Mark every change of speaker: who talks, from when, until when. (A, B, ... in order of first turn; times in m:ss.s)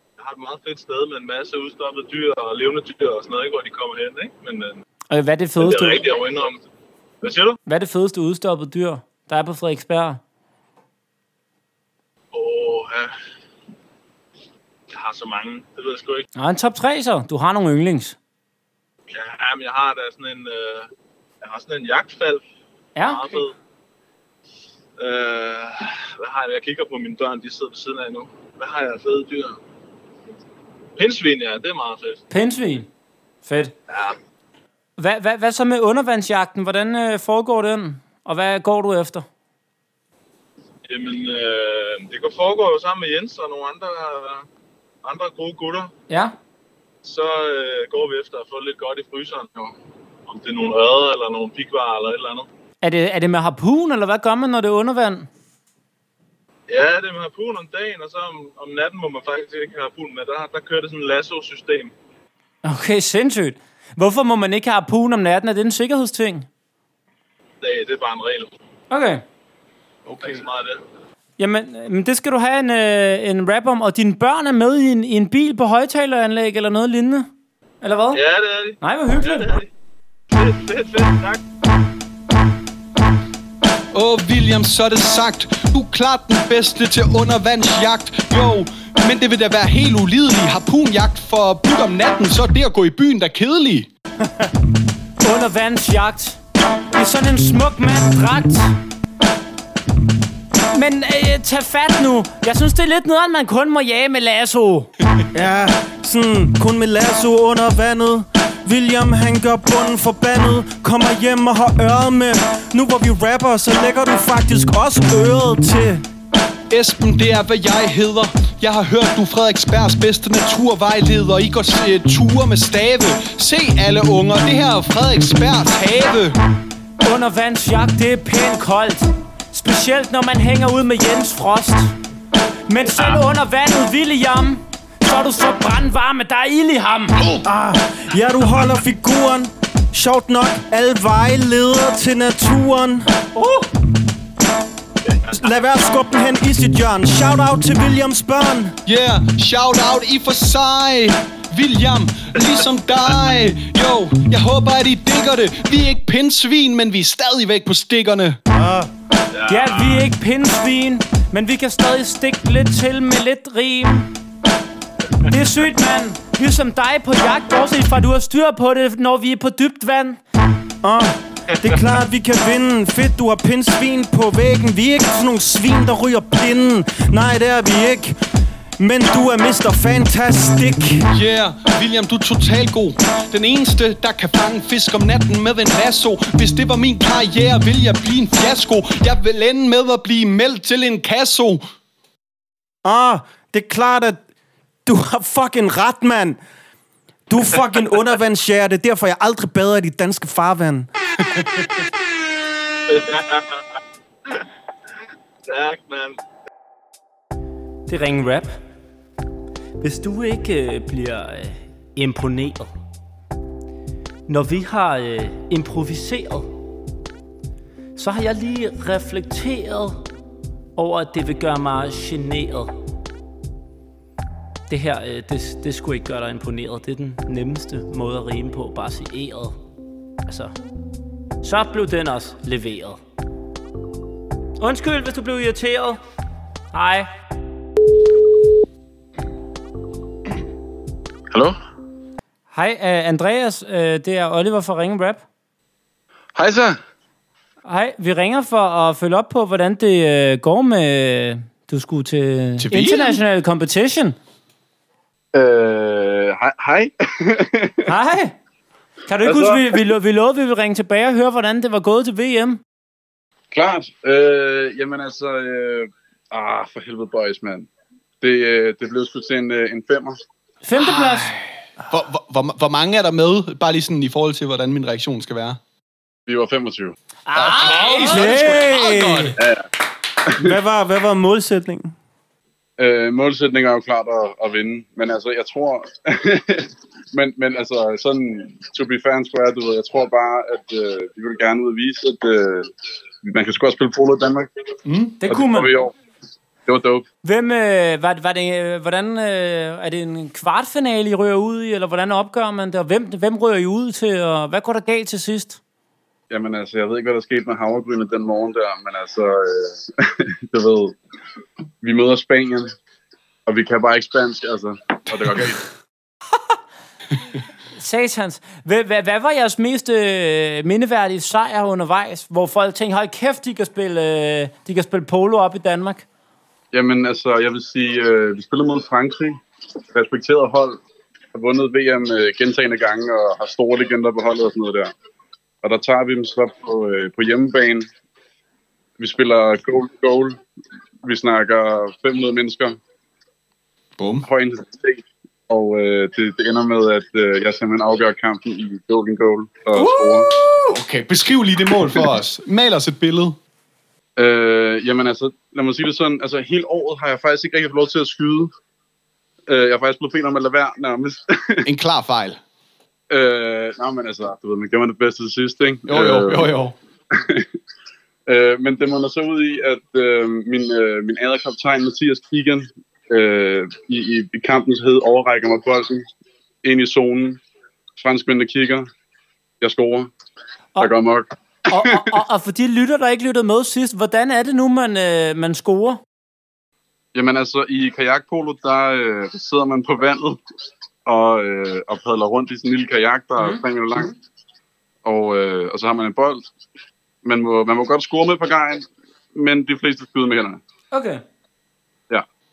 0:00.2-0:04.8 A
0:05.1-0:06.0 B
0:05.6-0:06.6 A
0:07.2-0:07.6 A
0:07.6-0:10.2 B
0:12.3-0:13.1 A
0:14.9-0:16.2 A
0:16.4-0:18.2 B
0:19.1-0:20.9 A
0:21.4-0:22.4 A
0:23.0-0:23.4 B
0:23.0-0:23.5 A
0:25.0-0:29.6 A
0:31.0-0:32.2 A
0:32.3-0:32.9 B
0:33.4-0:33.7 B
0:33.9-0:34.2 A
0:35.0-0:39.2 B
0:40.8-0:44.4 A
0:45.0-0:45.9 A
0:46.1-0:46.4 B
0:47.0-0:49.7 A
0:50.3-0:52.4 A
0:52.8-0:55.3 B
0:56.7-1:01.9 A
1:02.6-1:06.5 B
1:07.6-1:08.5 A
1:08.9-1:09.2 B
1:10.0-1:10.4 C
1:10.2-1:10.8 A
1:11.4-1:17.3 B
1:17.8-1:18.2 B
1:18.1-1:19.7 A
1:18.8-1:19.5 B
1:20.3-1:21.4 A
1:23.9-1:33.9 C
1:35.2-1:36.4 B
1:36.9-1:38.7 B
1:40.7-1:44.9 B
1:45.3-1:56.0 D
1:56.7-2:06.4 C
2:07.0-2:11.9 B
2:12.7-2:17.2 B
2:17.4-2:23.1 D
2:23.3-2:23.7 B
2:25.3-2:28.7 D
2:28.8-2:38.4 C
2:38.5-2:38.9 D
2:39.3-2:40.0 A
2:39.5-2:44.1 B
2:45.3-2:50.2 B
2:50.8-2:58.2 D
2:58.8-3:01.0 D
3:01.1-3:11.6 C
3:12.8-3:14.2 D
3:14.8-3:16.4 D
3:17.3-3:20.9 D
3:22.9-3:23.6 A
3:25.5-3:26.2 A
3:27.9-3:28.6 B
3:29.8-3:32.7 B
3:34.3-3:36.5 B
3:38.0-3:40.0 B
3:40.8-3:42.7 B
3:44.7-3:49.6 B
3:50.3-3:50.5 B
3:51.4-3:53.0 B
3:54.6-3:56.0 B
3:56.7-3:57.1 B
4:02.5-4:05.2 B
4:06.4-4:06.8 E
4:07.6-4:14.2 B
4:12.6-4:13.2 C
4:15.3-4:17.9 E
4:17.9-4:18.4 B
4:19.0-4:22.6 B
4:19.2-4:19.8 E
4:23.5-4:27.7 E
4:28.2-4:30.2 E
4:30.6-4:31.3 B
4:30.8-4:35.6 C
4:36.3-4:36.9 E
4:37.3-4:38.7 B
4:37.3-4:39.3 C
4:38.0-4:39.3 D
4:39.4-4:39.6 E
4:40.4-4:41.9 D
4:42.8-4:52.7 E
4:53.2-4:54.5 E
4:54.8-4:55.2 C
4:55.2-4:55.7 B
4:55.2-4:55.9 E
4:56.7-4:57.0 E
4:57.2-5:05.6 B
5:06.3-5:11.0 E
5:11.8-5:12.7 E
5:13.5-5:15.6 E
5:17.7-5:26.0 B
5:26.7-5:29.4 E
5:29.9-5:30.8 E
5:31.3-5:34.9 E
5:35.6-5:37.9 E
5:39.0-5:40.4 E
5:41.0-5:42.8 E
5:44.0-5:44.2 C
5:44.2-5:50.3 E
5:49.7-5:53.4 C
5:54.2-5:58.5 E
5:59.5-6:01.7 E
6:01.6-6:02.4 C
6:03.1-6:06.5 E
6:05.9-6:06.8 C
6:07.1-6:07.4 E
6:08.3-6:16.0 E
6:16.6-6:17.4 E
6:18.0-6:18.9 E
6:19.6-6:20.1 E
6:20.8-6:22.0 E
6:21.7-6:26.0 B
6:27.1-6:30.4 E
6:31.0-6:34.1 E
6:35.0-6:36.4 E
6:37.2-6:40.6 E
6:40.9-6:41.2 B